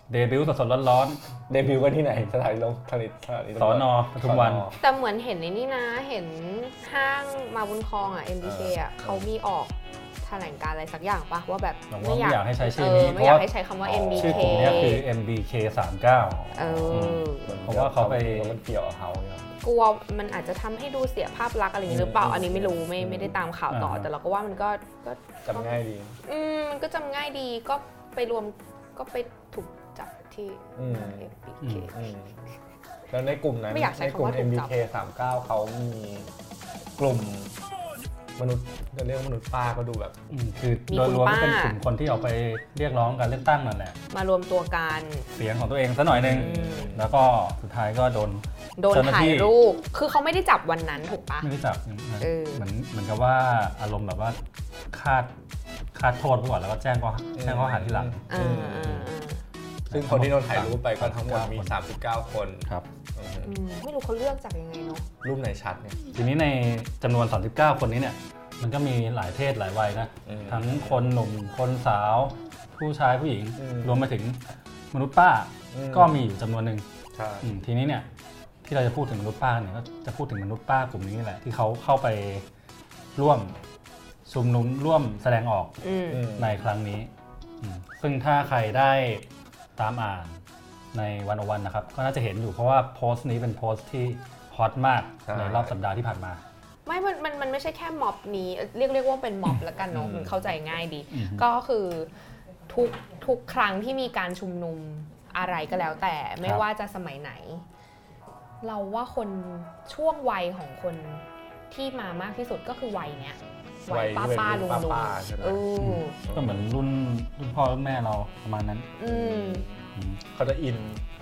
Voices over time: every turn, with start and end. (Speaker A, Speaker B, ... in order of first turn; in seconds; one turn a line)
Speaker A: 0.1-1.2
Speaker B: 1.5-4.8
Speaker A: 3.6-4.7
Speaker C: 4.7-15.0
Speaker B: 8.4-9.3
Speaker A: 11.9-13.5
Speaker B: 13.8-14.9
Speaker A: 14.1-18.6
Speaker C: 16.5-17.6
Speaker B: 16.6-19.5
Speaker C: 19.6-31.9
Speaker B: 21.9-23.3
Speaker A: 23.7-24.1
Speaker B: 25.4-26.2
Speaker B: 30.8-31.3
Speaker A: 31.6-31.9
Speaker B: 31.9-32.4
Speaker B: 33.1-36.3
Speaker C: 33.7-34.7
Speaker B: 37.0-37.6
Speaker B: 38.4-40.2
Speaker A: 40.3-44.0
Speaker C: 40.9-41.8
Speaker C: 44.1-45.3
Speaker A: 45.3-49.5
Speaker B: 46.1-47.1
Speaker C: 46.3-46.9
Speaker C: 48.8-51.5
Speaker A: 51.4-54.4
Speaker C: 52.2-52.7
Speaker A: 54.9-55.3
Speaker A: 55.9-58.3
Speaker B: 57.3-58.8
Speaker C: 58.3-59.4
Speaker A: 58.8-59.1
Speaker A: 59.9-61.7
Speaker B: 60.0-63.5
Speaker C: 63.4-65.1
Speaker B: 65.2-66.0
Speaker A: 66.1-74.4
Speaker B: 70.2-70.7
Speaker B: 73.6-74.0
Speaker A: 74.9-76.8
Speaker B: 75.7-76.2
Speaker B: 77.1-77.5
Speaker A: 77.4-78.0
Speaker A: 78.6-82.4
Speaker A: 83.2-83.5
Speaker A: 84.2-85.7
Speaker C: 85.8-86.3
Speaker B: 86.1-86.5
Speaker A: 86.4-87.1
Speaker A: 87.6-89.2
Speaker A: 89.8-90.4
Speaker A: 90.9-96.4
Speaker B: 95.2-95.7
Speaker C: 96.8-102.1
Speaker B: 99.9-100.5
Speaker A: 101.1-101.5
Speaker C: 102.7-107.6
Speaker C: 108.6-116.2
Speaker B: 113.9-115.7
Speaker A: 115.8-119.0
Speaker B: 116.2-116.6
Speaker C: 119.0-119.7
Speaker B: 119.0-121.0
Speaker A: 119.9-120.2